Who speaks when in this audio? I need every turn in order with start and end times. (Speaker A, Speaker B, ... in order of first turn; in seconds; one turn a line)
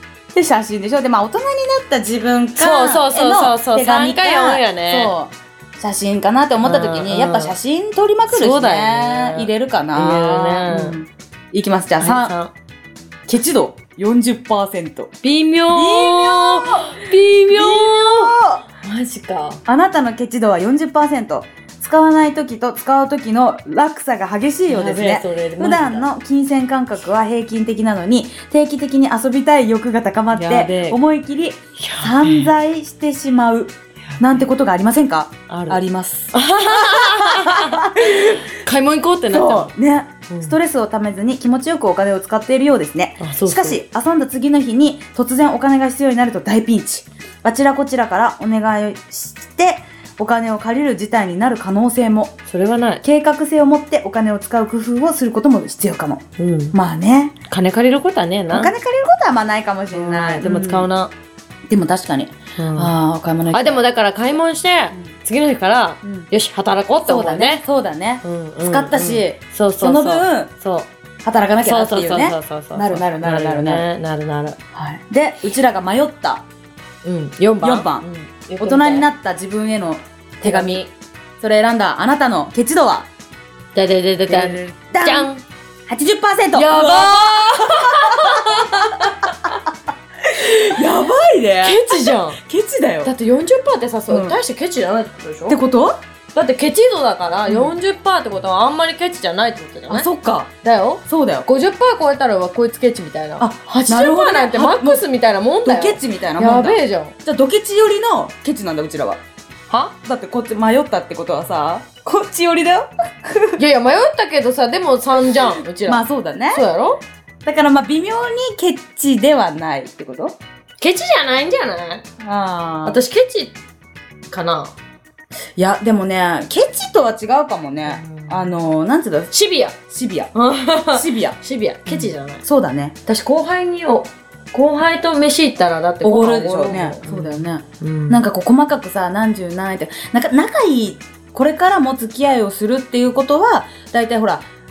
Speaker A: 0.3-12.3
Speaker B: 2.6-5.1
Speaker B: 6.6-7.5
Speaker B: 8.3-11.0
Speaker B: 12.0-12.5
Speaker A: 13.3-15.1
Speaker B: 15.2-19.6
Speaker A: 15.7-18.6
Speaker A: 19.6-38.5
Speaker B: 24.7-26.1
Speaker B: 30.3-31.0
Speaker B: 31.8-32.5
Speaker B: 34.1-34.4
Speaker B: 35.5-39.7
Speaker A: 39.3-52.4
Speaker B: 40.3-40.5
Speaker B: 43.2-43.8
Speaker B: 52.5-53.0
Speaker A: 53.0-57.4
Speaker B: 56.4-56.8
Speaker B: 57.5-58.7
Speaker A: 58.5-60.9
Speaker B: 59.9-61.1
Speaker A: 61.7-63.8
Speaker B: 62.6-62.9
Speaker B: 63.5-67.6
Speaker A: 66.0-66.3
Speaker A: 67.0-70.5
Speaker B: 68.2-70.9
Speaker A: 71.2-73.8
Speaker B: 71.6-74.6
Speaker A: 74.7-76.4
Speaker B: 77.0-79.1
Speaker A: 77.6-78.1
Speaker A: 78.6-80.8
Speaker B: 80.4-80.9
Speaker A: 81.4-83.1
Speaker B: 83.7-85.4
Speaker A: 84.3-85.3
Speaker A: 85.9-89.6
Speaker B: 86.5-89.4
Speaker A: 90.2-93.1
Speaker B: 91.6-92.4
Speaker B: 93.0-95.6
Speaker A: 94.1-94.4
Speaker A: 95.5-96.0
Speaker B: 96.3-100.1
Speaker A: 97.5-97.8
Speaker A: 99.9-100.5
Speaker B: 100.6-107.1
Speaker A: 101.0-101.5
Speaker A: 103.4-105.1
Speaker A: 105.6-109.2
Speaker B: 109.7-109.9
Speaker A: 110.0-113.6
Speaker B: 113.6-117.0
Speaker A: 115.8-116.6
Speaker A: 117.4-120.4
Speaker B: 120.8-122.0
Speaker A: 122.2-123.0
Speaker B: 122.8-123.6
Speaker B: 124.3-124.7
Speaker A: 125.5-130.3
Speaker B: 127.9-128.5
Speaker B: 129.3-129.8
Speaker B: 130.3-132.4
Speaker A: 130.9-132.9
Speaker B: 133.1-138.2
Speaker A: 136.0-144.4